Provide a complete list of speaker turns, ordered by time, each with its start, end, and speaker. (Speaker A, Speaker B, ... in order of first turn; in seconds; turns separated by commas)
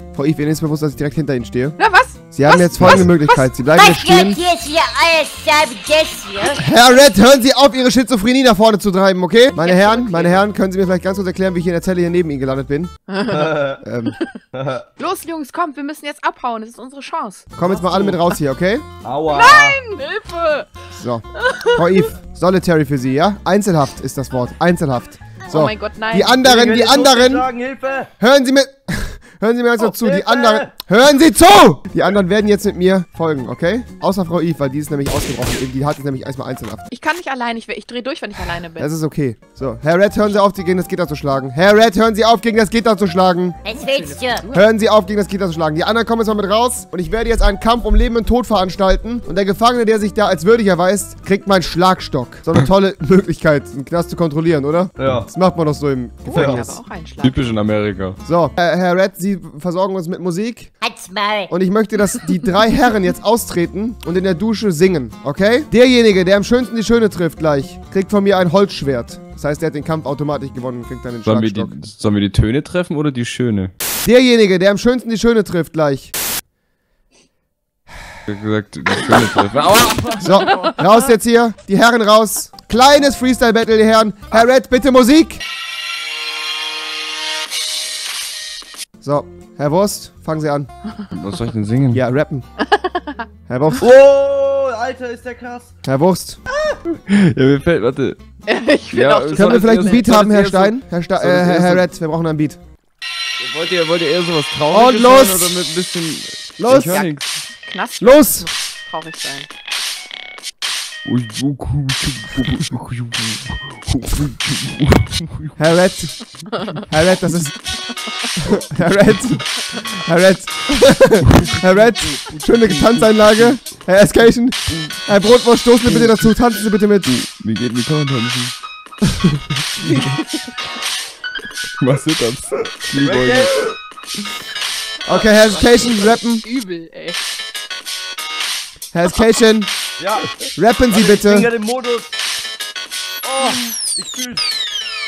Speaker A: 0.1-1.8, Speaker B: 1.8-3.5, Speaker A: 2.3-4.4, Speaker C: 3.8-6.6, Speaker A: 6.6-12.9, Speaker B: 9.6-10.4, Speaker B: 13.1-13.5, Speaker D: 13.2-13.8, Speaker A: 13.8-14.1, Speaker D: 14.5-14.8, Speaker B: 15.0-17.5, Speaker A: 17.6-18.9, Speaker D: 17.6-18.2, Speaker D: 19.0-19.8, Speaker B: 19.3-20.7, Speaker A: 20.9-27.5, Speaker B: 21.4-22.1, Speaker B: 25.5-26.4, Speaker D: 26.4-28.1, Speaker A: 28.2-36.9, Speaker D: 29.8-30.7, Speaker B: 36.9-38.9, Speaker A: 38.8-43.6, Speaker C: 43.6-44.4, Speaker B: 43.7-44.6, Speaker A: 44.5-56.8, Speaker D: 55.0-55.3, Speaker B: 56.2-57.4, Speaker D: 56.3-56.6, Speaker E: 57.2-58.2, Speaker A: 58.2-60.7, Speaker C: 60.8-61.5, Speaker A: 61.5-71.8, Speaker E: 71.2-73.7, Speaker A: 74.0-76.1, Speaker E: 78.2-80.8, Speaker A: 80.2-85.4, Speaker A: 89.0-90.7, Speaker E: 91.1-92.0, Speaker A: 91.9-92.4, Speaker B: 92.6-93.2, Speaker A: 93.5-93.9, Speaker D: 93.8-95.8, Speaker A: 95.8-96.4, Speaker D: 96.5-96.8, Speaker E: 97.1-98.2, Speaker B: 98.5-100.0, Speaker E: 98.9-101.8, Speaker A: 99.3-102.6, Speaker E: 103.4-107.3, Speaker A: 104.7-105.5, Speaker A: 106.6-107.0, Speaker B: 106.7-109.5, Speaker A: 108.0-108.5, Speaker E: 111.0-115.6, Speaker A: 115.6-117.6, Speaker A: 118.4-127.1, Speaker E: 121.2-123.6, Speaker E: 124.7-125.0, Speaker E: 125.8-126.3, Speaker E: 127.1-128.5, Speaker E: 129.8-130.2, Speaker B: 129.8-130.6, Speaker E: 131.8-133.5, Speaker D: 132.9-133.7, Speaker A: 135.0-136.4, Speaker B: 135.0-137.2, Speaker A: 138.9-139.7, Speaker D: 140.0-140.3, Speaker A: 140.6-141.5, Speaker D: 140.9-142.1, Speaker D: 143.2-144.4